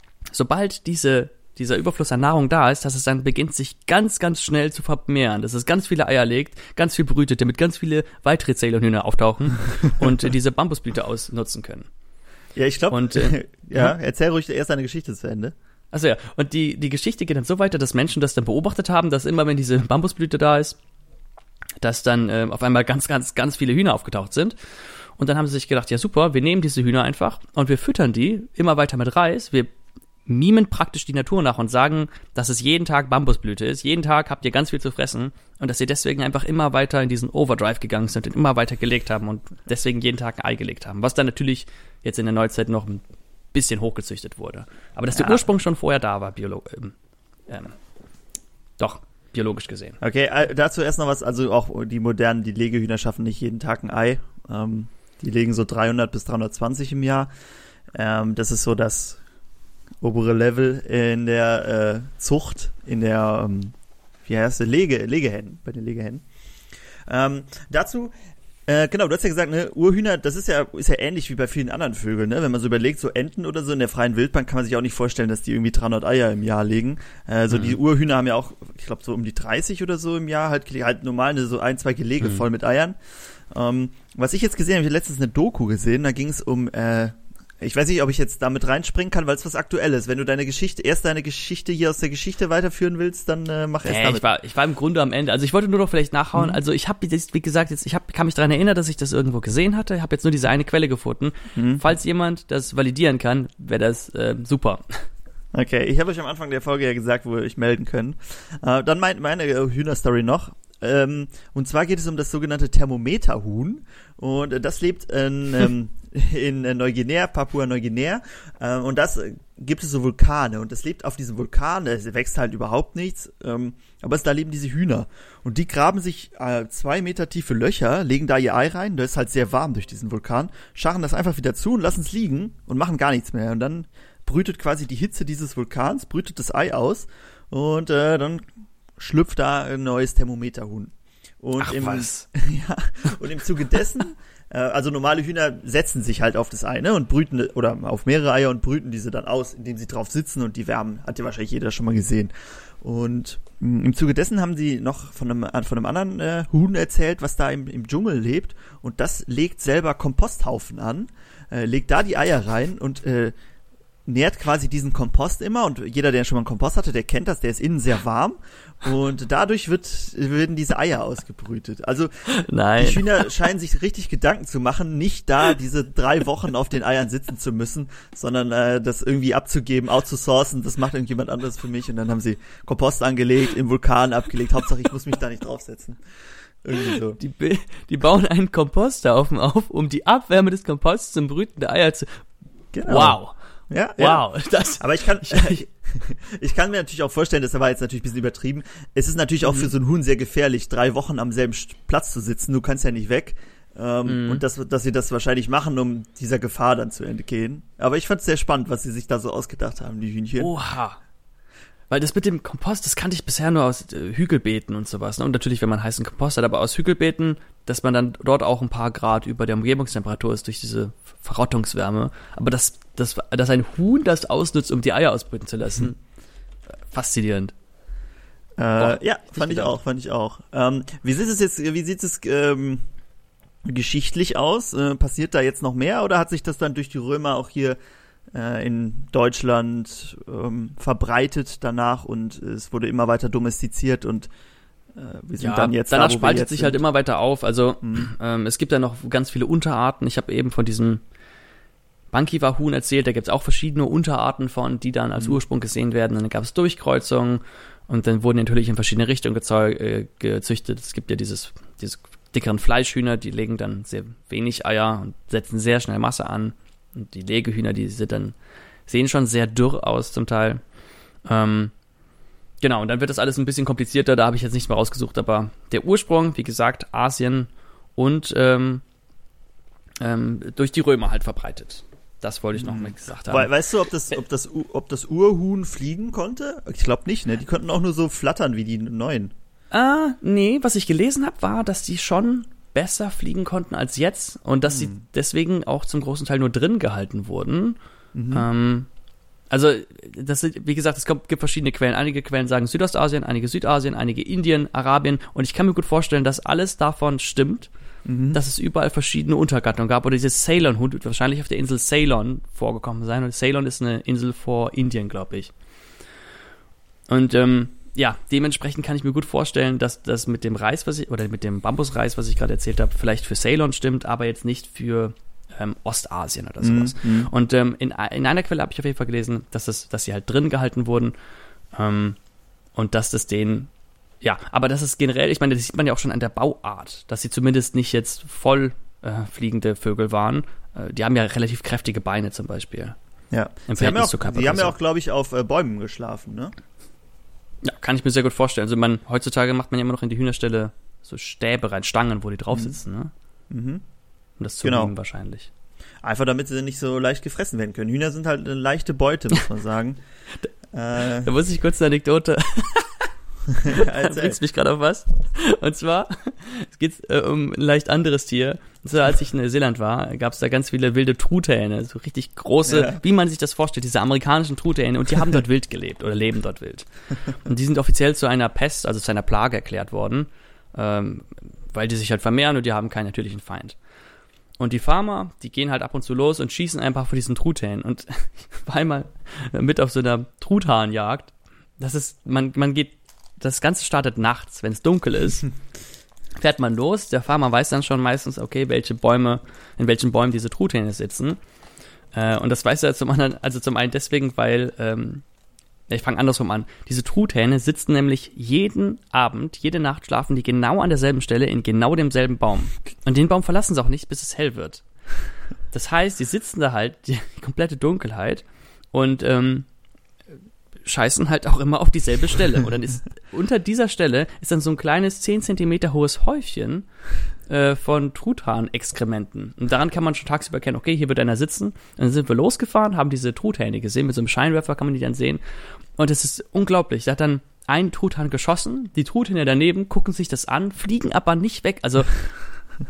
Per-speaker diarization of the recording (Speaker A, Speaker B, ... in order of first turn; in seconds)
Speaker A: 0.3-11.9, 12.9-13.9, 15.9-20.8, 21.8-24.6, 25.2-29.7, 30.3-46.9, 47.5-47.8, 48.8-50.0, 77.5-77.8, 93.8-105.0, 141.6-142.2, 172.3-173.3, 186.8-192.2, 192.8-193.3, 194.0-195.6, 204.1-204.4, 210.4-211.0, 211.9-226.0, 226.9-227.5, 228.8-229.8, 245.4-251.0, 252.1-268.3, 268.9-270.6, 271.2-271.7, 272.6-278.8, 280.0-283.5, 289.7-297.8, 298.3-298.9, 299.5-307.7, 308.3-315.5, 317.1-331.1, 331.7-332.2, 332.7-333.7, 334.2-343.0, 343.7-344.7, 347.6-353.1, 354.4-355.5, 361.2-363.1, 363.6-383.8, 384.6-395.5, 396.4-401.4, 402.1-405.2, 405.9-414.8, 415.7-419.7, 420.8-426.9, 427.5-435.4, 435.9-442.3
Speaker B: 12.6-15.5, 45.1-45.4, 50.0-57.3, 57.9-59.2, 60.0-63.7, 64.2-66.2, 67.1-68.1, 68.7-83.0, 83.5-94.2, 101.5-101.8, 105.5-163.3, 164.1-172.1, 172.8-186.0, 186.6-187.2, 192.7-193.2, 193.7-210.5, 228.6-232.8, 233.6-237.8, 238.3-244.3, 244.9-246.8, 247.8-248.1, 282.5-289.3, 294.7-295.0, 298.1-298.4, 308.0-308.4, 326.6-327.3, 343.3-346.5, 353.5-353.8, 354.6-354.9, 356.0-360.0, 360.7-361.3, 363.5-364.4, 372.6-373.0